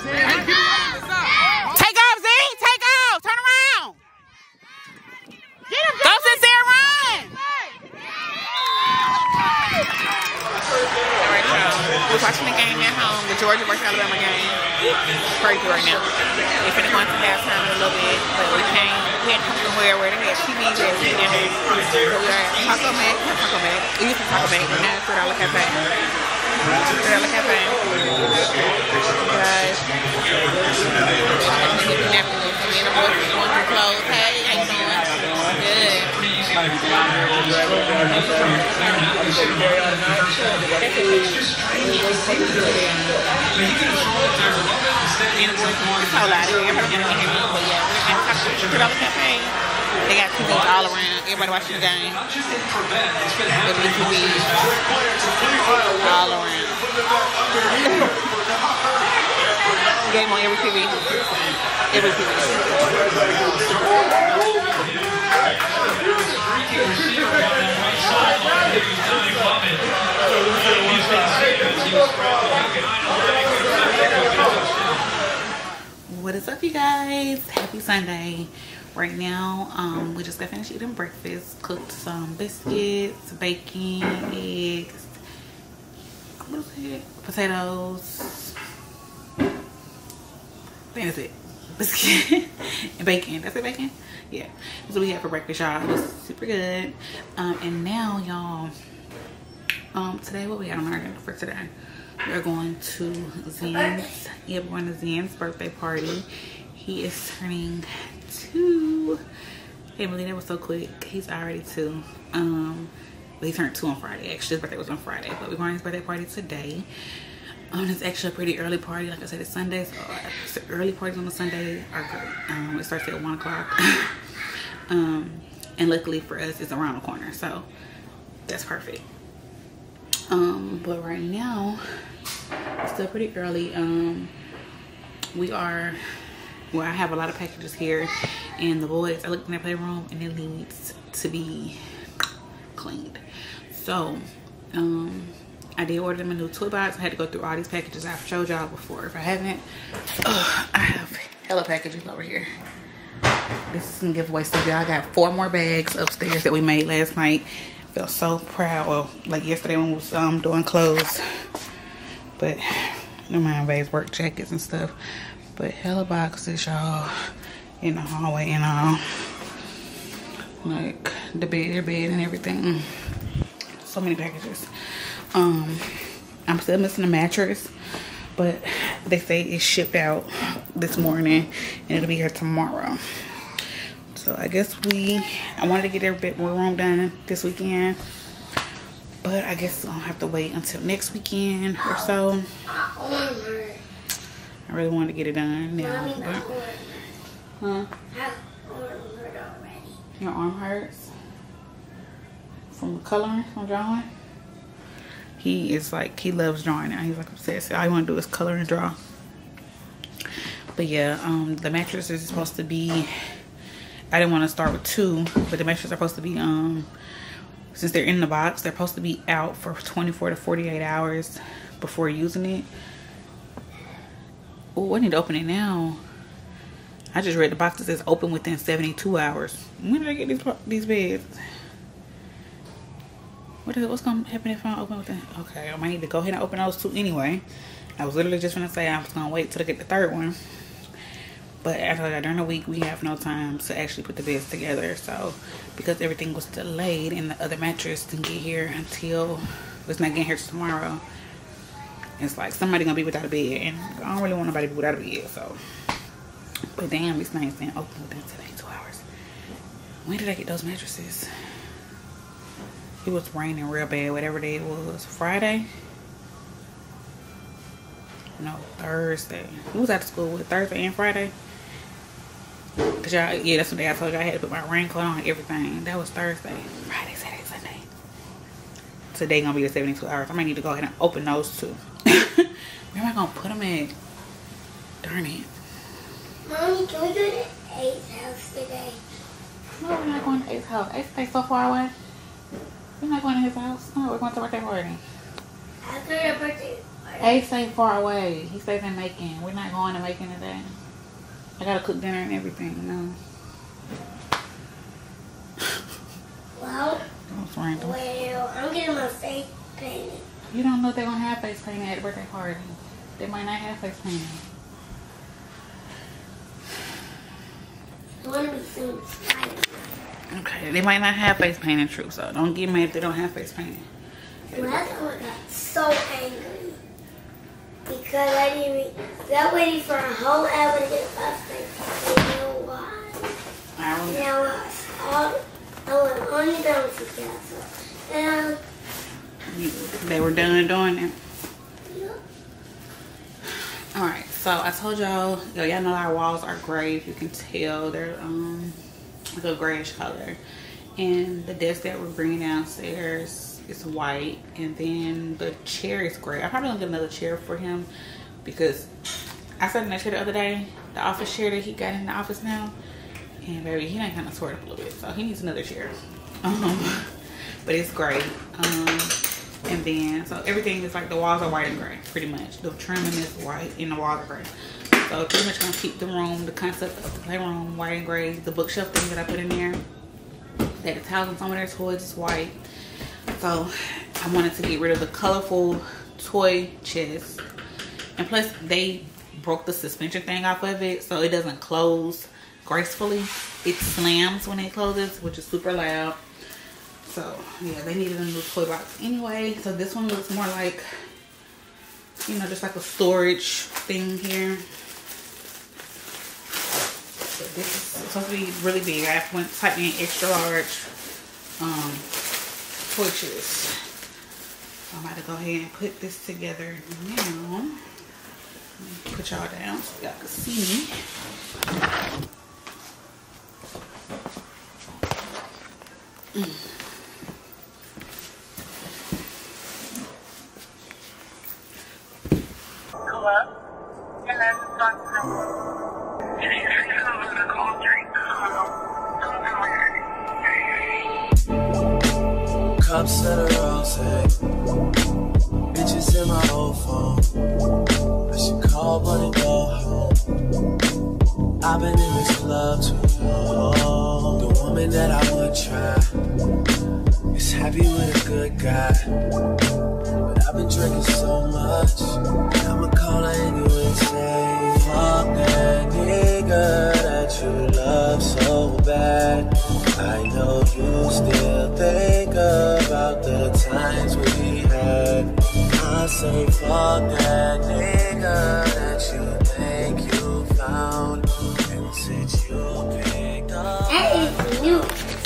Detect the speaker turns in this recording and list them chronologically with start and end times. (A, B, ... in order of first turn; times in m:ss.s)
0:01.7-0:04.0 A
0:06.0-0:07.3 A
0:11.2-0:14.6 A
0:15.3-0:25.8 A
0:26.8-0:28.5 A
0:29.2-0:29.8 A
0:31.4-0:36.1 A
0:45.3-0:49.6 A
0:50.1-0:52.2 A
0:53.6-0:54.7 A
0:56.0-0:56.8 A
0:57.8-0:58.1 A
1:00.0-1:01.0 A
1:01.9-1:02.7 A
1:16.1-1:25.1 A
1:26.4-1:28.5 A
1:30.9-1:38.7 A
1:39.9-1:41.7 A
1:42.2-1:49.2 A
1:43.6-1:44.1 B
1:50.0-1:56.8 A
1:57.7-2:04.1 A
2:04.9-2:07.6 A
2:08.5-2:09.0 A
2:10.3-2:11.8 A
2:12.8-2:14.3 A
2:15.3-2:16.0 A
2:16.7-2:21.8 A
2:22.7-2:29.6 A
2:30.2-2:32.5 A
2:33.7-2:41.2 A
2:42.4-2:44.9 A
2:45.5-2:47.1 A
2:47.8-2:49.3 A
2:50.6-2:52.9 A
2:53.8-2:54.7 A
2:55.3-2:55.9 A
2:56.5-2:57.7 A
2:58.4-3:03.0 A
3:04.1-3:08.0 A
3:09.2-3:12.4 A
3:11.8-3:13.8 B
3:14.7-3:16.5 A
3:15.8-3:17.1 B
3:17.6-3:17.9 A
3:18.1-3:20.0 B
3:20.2-3:21.1 A
3:22.7-3:24.1 A
3:25.4-3:29.0 A
3:30.8-3:33.1 A
3:34.1-3:36.9 A
3:37.7-3:42.7 A
3:44.8-3:46.0 A
3:47.1-3:51.3 A
3:53.6-3:57.4 A
3:58.0-4:00.4 A
4:01.6-4:11.0 A
4:12.2-4:15.6 A
4:16.8-4:19.0 A
4:20.0-4:21.3 A
4:23.0-4:25.7 A
4:28.4-4:31.3 A
4:33.0-4:37.9 A
4:39.1-4:43.9 A
4:45.0-4:45.5 A
4:46.4-4:49.0 B
4:49.8-4:51.9 A
4:53.0-4:55.0 A
4:55.8-4:57.4 B
4:57.2-5:00.7 A
5:01.6-5:03.2 A
5:06.6-5:07.0 B
5:07.3-5:08.0 A
5:07.8-5:10.2 B
5:10.5-5:14.4 A
5:18.2-5:19.9 B
5:20.3-5:23.8 A
5:24.5-5:25.2 A
5:24.5-5:26.8 B
5:27.9-5:33.3 B
5:33.8-5:34.3 A
5:34.0-5:38.6 B
5:39.5-5:41.2 A
5:41.8-5:42.2 B
5:43.9-5:48.8 A
5:49.4-5:50.4 A
5:51.0-5:57.9 A
5:58.4-5:58.9 A
5:59.6-6:02.7 A
6:03.4-6:07.1 A
6:07.6-6:14.5 A
6:15.0-6:19.8 A
6:20.8-6:22.6 A
6:23.4-6:27.4 A
6:28.2-6:36.2 A
6:37.0-6:40.8 A
6:42.3-6:44.6 A
6:47.4-6:50.8 A
6:51.6-6:52.0 A
6:52.9-6:53.7 A
6:54.9-6:57.8 A
6:58.8-7:00.9 A
7:14.4-7:14.8 A
7:22.8-7:24.3 C
7:25.7-7:27.3 C
7:28.3-7:30.2 C
7:31.6-7:36.1 C
7:37.3-7:39.0 C
7:40.3-8:04.9 C
8:03.9-8:04.9 B